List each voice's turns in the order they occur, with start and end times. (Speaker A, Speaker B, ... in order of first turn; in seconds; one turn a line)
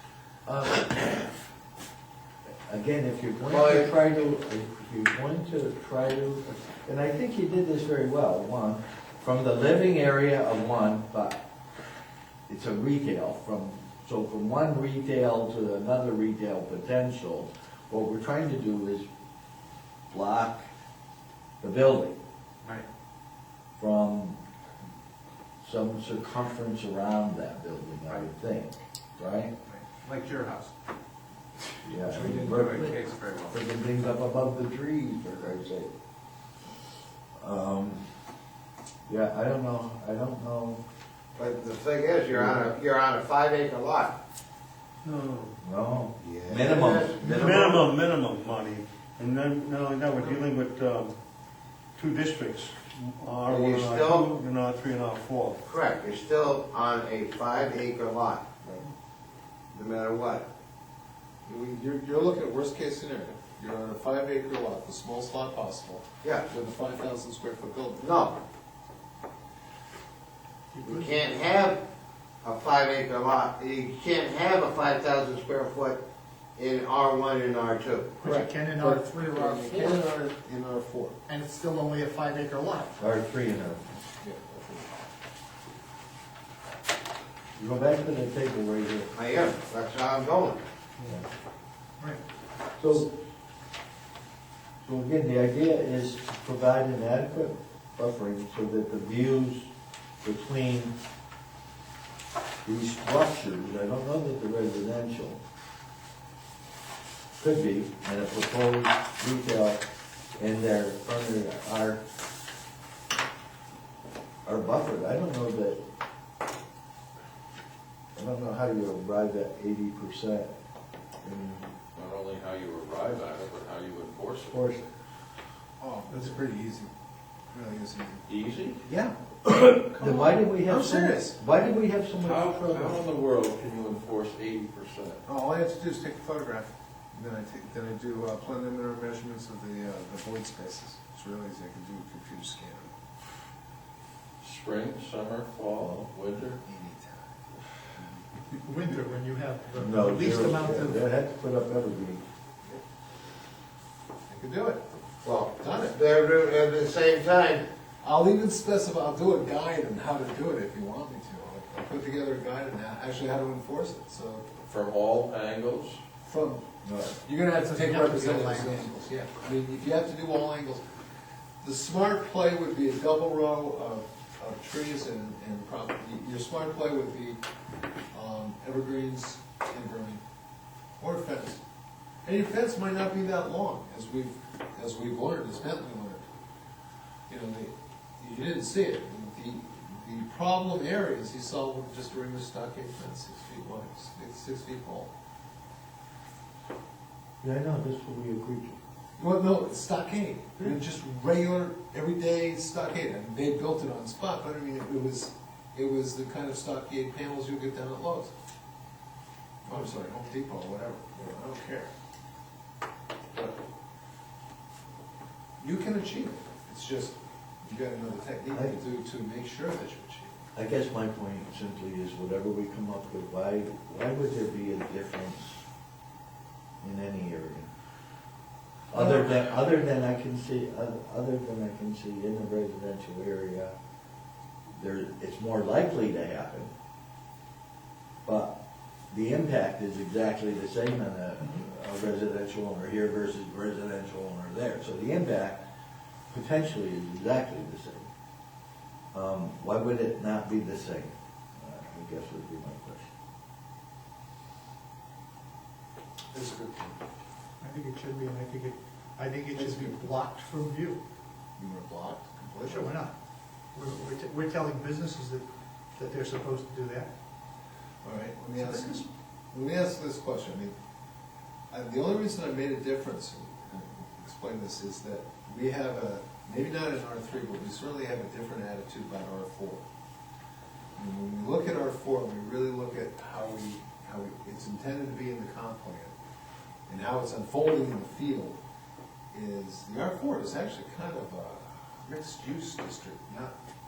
Speaker A: 2.7-11.4
Speaker B: 3.5-3.9
Speaker A: 12.5-19.1
Speaker A: 20.1-20.6
Speaker A: 21.6-22.1
Speaker A: 23.8-24.4
Speaker A: 25.6-29.5
Speaker A: 31.8-33.0
Speaker A: 33.5-35.9
Speaker A: 37.4-38.0
Speaker A: 39.1-40.8
Speaker B: 41.4-44.1
Speaker A: 42.3-42.6
Speaker C: 45.0-45.5
Speaker A: 45.6-47.8
Speaker B: 46.2-47.6
Speaker C: 47.2-51.1
Speaker C: 52.0-55.6
Speaker B: 53.5-54.3
Speaker B: 55.6-58.8
Speaker B: 59.7-60.5
Speaker D: 61.5-68.1
Speaker B: 68.0-68.4
Speaker E: 70.7-71.1
Speaker B: 70.8-71.8
Speaker B: 72.4-76.0
Speaker B: 76.5-78.2
Speaker E: 78.2-80.0
Speaker D: 78.2-81.2
Speaker E: 81.2-83.0
Speaker A: 83.0-83.8
Speaker D: 84.2-84.9
Speaker A: 87.5-89.1
Speaker B: 89.1-90.6
Speaker A: 92.8-93.1
Speaker A: 94.8-99.7
Speaker A: 100.2-100.9
Speaker A: 102.6-105.4
Speaker A: 107.4-109.8
Speaker A: 110.4-112.0
Speaker A: 114.4-115.8
Speaker A: 118.1-120.5
Speaker A: 121.2-121.6
Speaker F: 121.9-124.7
Speaker A: 124.5-124.8
Speaker D: 125.8-126.9
Speaker D: 127.5-128.2
Speaker F: 128.3-128.8
Speaker D: 128.8-131.4
Speaker A: 129.9-133.1
Speaker F: 132.2-135.2
Speaker D: 135.2-142.9
Speaker F: 144.4-146.6
Speaker A: 145.8-146.1
Speaker D: 146.6-147.3
Speaker E: 148.6-151.0
Speaker A: 149.8-152.2
Speaker D: 154.3-156.0
Speaker B: 155.2-157.7
Speaker D: 158.0-164.5
Speaker F: 164.7-166.0
Speaker D: 166.2-166.6
Speaker A: 166.8-167.2
Speaker D: 167.2-170.8
Speaker E: 167.7-168.9
Speaker D: 171.6-177.4
Speaker D: 178.1-180.2
Speaker D: 181.0-181.6
Speaker D: 182.2-186.2
Speaker D: 187.3-195.1
Speaker A: 197.4-198.8
Speaker D: 199.2-208.3
Speaker D: 209.6-211.9
Speaker D: 213.3-213.6
Speaker D: 215.6-220.4
Speaker A: 220.5-225.6
Speaker A: 226.8-227.7
Speaker A: 228.9-233.7
Speaker A: 234.8-236.7
Speaker A: 238.2-238.6
Speaker A: 239.1-245.6
Speaker A: 246.3-248.1
Speaker A: 249.1-253.1
Speaker D: 256.3-257.0
Speaker E: 257.6-261.0
Speaker D: 259.5-260.1
Speaker D: 261.6-263.0
Speaker E: 262.6-263.1
Speaker E: 263.7-265.4
Speaker E: 265.9-267.1
Speaker D: 268.0-270.7
Speaker E: 268.6-269.0
Speaker D: 271.7-279.8
Speaker D: 280.9-286.1
Speaker D: 286.9-288.6
Speaker D: 289.3-293.5